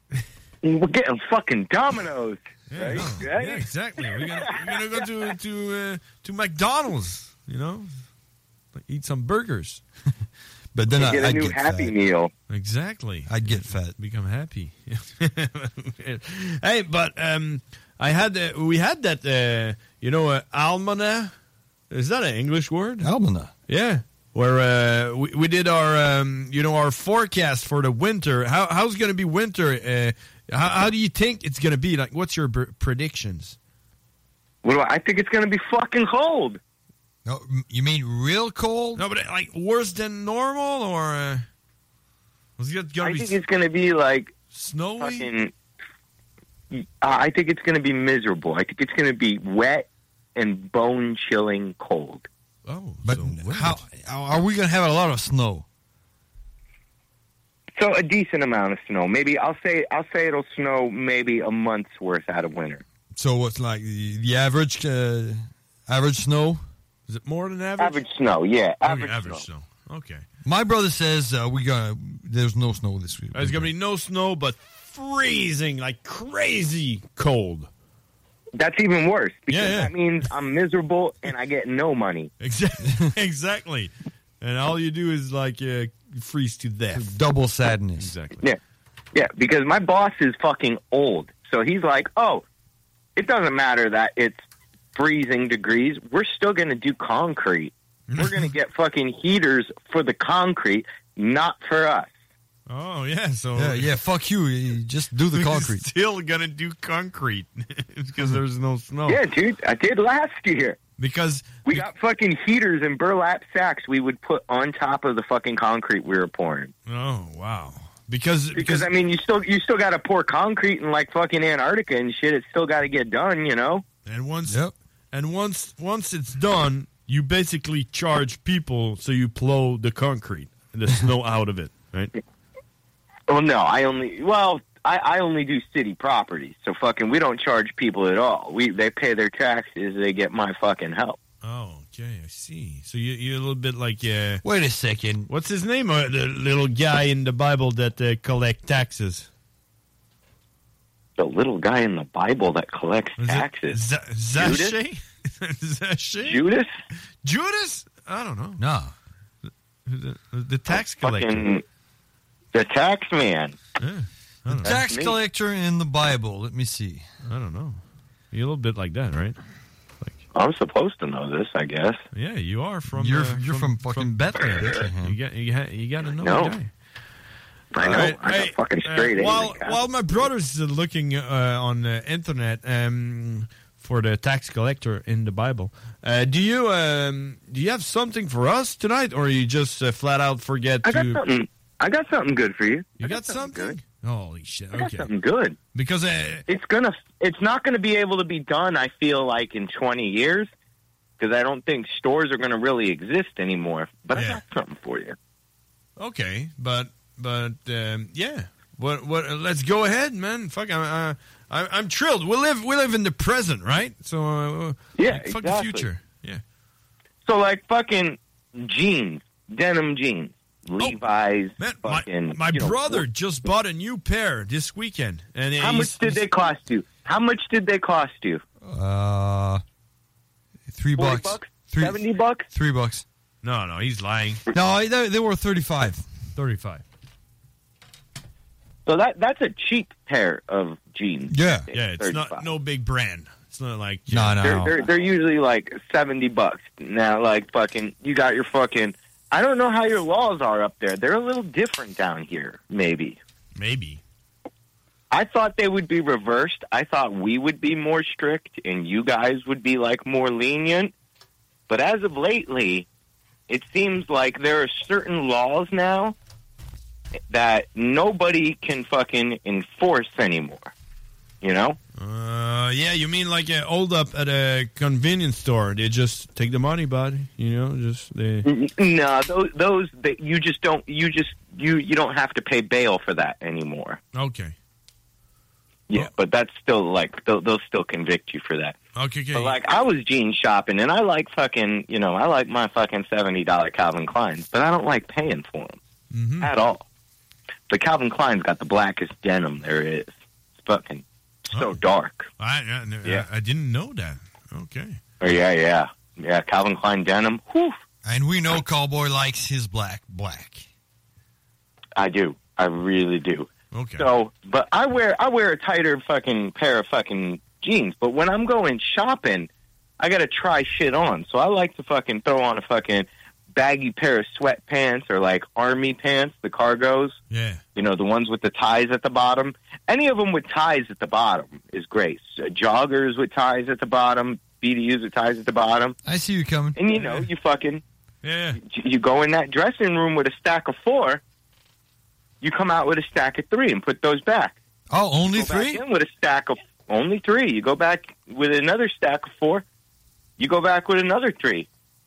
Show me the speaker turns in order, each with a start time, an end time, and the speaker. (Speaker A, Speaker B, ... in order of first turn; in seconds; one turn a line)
Speaker A: 0.6-4.7
Speaker B: 2.7-7.9
Speaker B: 8.8-9.8
Speaker C: 10.7-11.9
Speaker A: 10.9-12.3
Speaker B: 12.5-21.3
Speaker C: 13.3-13.9
Speaker B: 21.9-23.1
Speaker C: 23.0-23.5
Speaker B: 23.7-33.5
Speaker A: 34.6-36.6
Speaker C: 37.2-39.0
Speaker B: 39.0-41.5
Speaker B: 42.6-43.4
Speaker A: 43.0-44.4
Speaker B: 44.5-45.3
Speaker A: 45.0-45.5
Speaker A: 46.7-52.3
Speaker B: 52.6-53.8
Speaker C: 53.0-55.6
Speaker A: 57.8-62.8
Speaker C: 63.1-66.6
Speaker B: 67.1-68.0
Speaker A: 67.8-69.4
Speaker B: 68.8-70.2
Speaker C: 70.4-73.7
Speaker B: 73.3-77.7
Speaker A: 78.5-82.3
Speaker B: 79.5-80.0
Speaker B: 82.4-87.1
Speaker C: 86.9-88.1
Speaker B: 88.0-88.4
Speaker A: 89.1-92.4
Speaker A: 93.2-94.4
Speaker A: 94.9-102.1
Speaker B: 98.1-98.5
Speaker B: 102.7-103.9
Speaker C: 103.5-105.8
Speaker B: 105.3-109.2
Speaker A: 109.1-110.8
Speaker B: 111.0-111.9
Speaker A: 111.6-116.7
Speaker B: 116.9-118.9
Speaker A: 118.5-123.8
Speaker B: 124.0-124.6
Speaker C: 124.5-124.7
Speaker B: 125.1-132.1
Speaker A: 133.3-141.2
Speaker B: 141.4-144.4
Speaker C: 144.4-145.3
Speaker B: 145.3-149.3
Speaker A: 151.2-153.8
Speaker B: 153.2-156.5
Speaker A: 154.3-154.8
Speaker A: 156.2-156.7
Speaker B: 157.2-158.6
Speaker C: 158.6-158.9
Speaker B: 159.9-161.5
Speaker A: 160.7-161.6
Speaker A: 162.5-163.6
Speaker B: 163.8-164.8
Speaker C: 164.5-167.0
Speaker A: 164.6-165.2
Speaker B: 167.2-167.8
Speaker B: 168.3-169.4
Speaker A: 170.3-172.0
Speaker B: 172.1-176.7
Speaker C: 172.9-175.2
Speaker A: 176.2-176.6
Speaker A: 177.7-180.2
Speaker B: 177.8-191.2
Speaker A: 190.8-193.8
Speaker B: 193.0-195.1
Speaker A: 194.7-195.6
Speaker B: 195.7-196.5
Speaker A: 196.5-200.5
Speaker A: 201.2-205.2
Speaker B: 204.1-204.4
Speaker B: 206.0-216.4
Speaker A: 215.0-215.9
Speaker A: 217.2-223.0
Speaker B: 221.6-226.2
Speaker A: 225.6-228.4
Speaker C: 228.6-229.6
Speaker C: 230.7-233.0
Speaker A: 231.0-232.5
Speaker B: 233.4-234.4
Speaker C: 234.5-236.0
Speaker B: 236.3-236.8
Speaker A: 238.8-242.4
Speaker C: 241.3-241.7
Speaker B: 241.7-244.6
Speaker C: 244.1-244.8
Speaker A: 244.4-253.2
Speaker B: 253.6-254.0
Speaker A: 255.1-260.9
Speaker A: 261.7-262.9
Speaker A: 263.5-266.1
Speaker A: 267.3-270.7
Speaker A: 271.4-271.8
Speaker B: 272.0-278.4
Speaker A: 278.4-284.0
Speaker B: 284.1-284.5
Speaker A: 285.9-288.8
Speaker B: 288.9-289.6
Speaker A: 289.3-295.8
Speaker B: 296.1-296.5
Speaker A: 296.4-296.8
Speaker A: 297.7-302.3
Speaker B: 301.5-301.8
Speaker B: 302.4-305.0
Speaker A: 305.2-307.8
Speaker C: 308.0-310.7
Speaker A: 311.9-319.5
Speaker B: 313.7-314.1
Speaker A: 320.0-327.2
Speaker B: 327.3-327.6
Speaker A: 327.8-335.9
Speaker C: 336.0-336.8
Speaker A: 336.8-337.8
Speaker B: 336.9-337.3
Speaker B: 338.2-338.6
Speaker A: 338.6-341.2
Speaker A: 342.4-344.6
Speaker C: 344.9-345.8
Speaker A: 345.2-349.6
Speaker A: 350.4-351.7